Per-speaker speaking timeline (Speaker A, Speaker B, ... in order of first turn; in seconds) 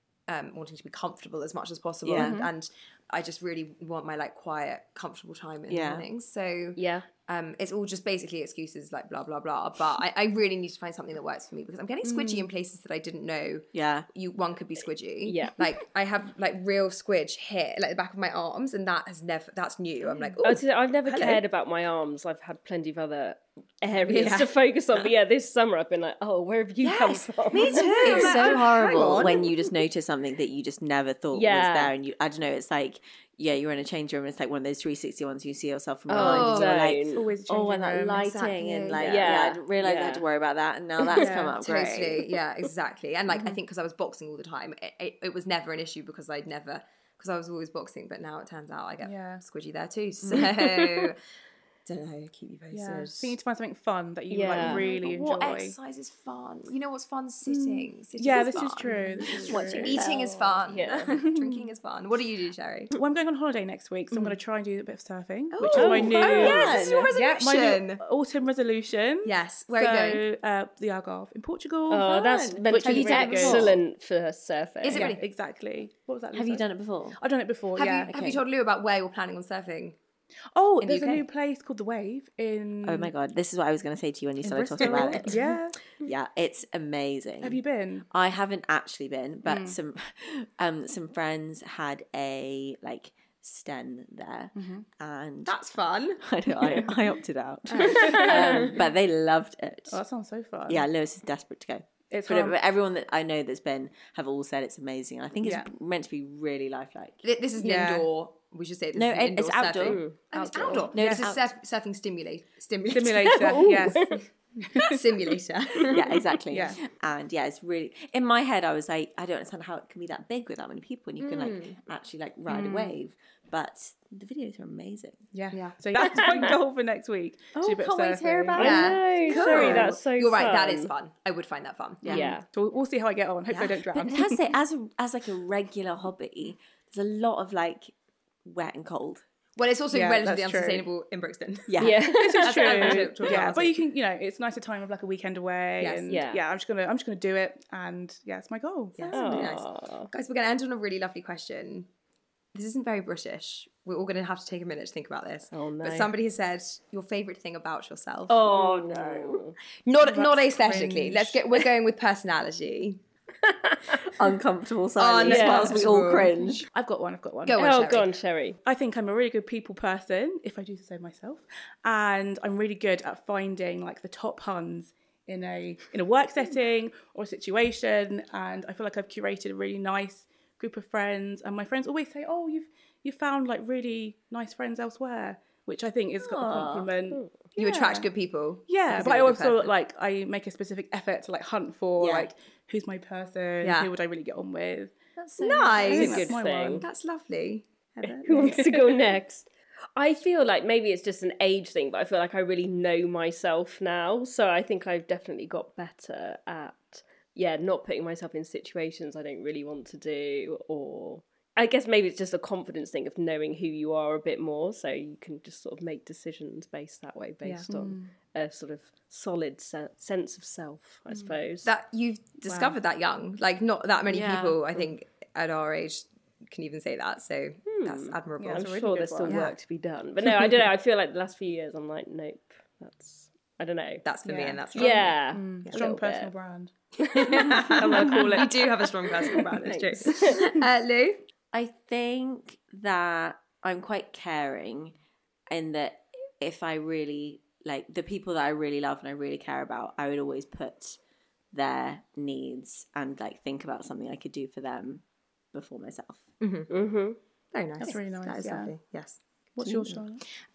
Speaker A: 0.3-21.4, 24.1-24.5, 26.8-29.5, 36.1-36.8, 38.1-39.4, 41.2-51.2, 51.9-53.4, 54.6-62.9, 64.1-64.4, 65.5-68.0, 69.2-70.2, 74.8-75.2, 77.8-80.0, 80.8-81.2, 84.8-85.2, 95.5-96.3, 97.7-98.4, 107.2-114.1, 114.8-116.0, 121.2-121.8, 125.5-126.2, 128.6-132.1, 133.5-133.8, 139.6-141.8, 142.4-143.8, 145.8-146.2, 149.0-151.9, 152.5-158.4, 159.8-163.0, 165.0-166.3, 167.4-168.1, 187.6-189.7, 193.6-193.9, 195.4-198.7, 221.6-229.6, 234.0-235.8, 237.2-241.2, 256.4-256.7, 257.5-260.0
Speaker B: 2.0-2.4, 5.7-6.0, 13.7-14.1, 27.6-42.2, 50.2-50.7, 59.5-60.3, 65.7-67.1, 72.0-73.8, 76.3-77.2, 78.1-78.4, 82.8-85.4, 86.0-87.6, 88.1-95.6, 96.2-100.0, 100.7-107.2, 108.9-110.1, 110.9-111.5, 115.9-125.2, 127.5-129.9, 132.0-132.3, 134.0-137.9, 138.4-139.2, 141.7-142.2, 158.3-159.4, 164.2-166.7, 186.2-186.9, 192.0-192.3, 195.2-196.3, 224.1-224.6, 241.5-244.9, 245.5-251.0, 251.5-255.0, 255.5-256.2
Speaker C: 2.2-2.5, 12.0-12.5, 28.8-29.3, 37.1-38.3, 41.1-41.6, 49.0-49.4, 52.7-55.8, 57.5-60.0, 61.1-61.7, 62.9-72.1, 72.6-73.8, 74.9-78.1, 80.5-83.1, 84.4-85.8, 87.4-88.0, 89.4-89.8, 94.5-94.8, 97.8-98.7, 99.9-100.8, 102.1-102.5, 105.4-105.7, 107.6-108.1, 110.8-111.2, 112.9-115.0, 116.5-116.8, 122.5-123.0, 125.3-128.7, 129.3-129.8, 132.1-134.4, 139.9-140.9, 141.9-149.5, 160.0-161.4, 165.3-167.7, 168.6-188.1, 188.7-194.9, 195.8-196.8, 198.4-198.7, 217.7-218.1, 221.1-221.4, 228.4-229.5, 234.2-238.6, 257.8-258.7, 259.6-260.2
Speaker D: 6.8-7.1, 15.2-15.6, 20.4-28.2, 31.3-31.9, 36.1-37.2, 39.0-40.2, 54.3-54.8, 59.3-59.6, 60.7-61.1, 65.8-66.7, 71.9-75.1, 109.8-110.8, 113.6-114.2, 126.0-126.5, 128.6-130.9, 132.1-132.4, 141.8-143.0, 146.1-146.4, 149.1-150.1, 155.5-156.1, 158.3-159.6, 163.4-164.0, 165.3-165.7, 167.6-168.6, 195.9-196.8, 198.2-221.7, 227.7-234.0, 234.7-236.3, 237.0-238.3, 239.3-240.4, 256.7-257.2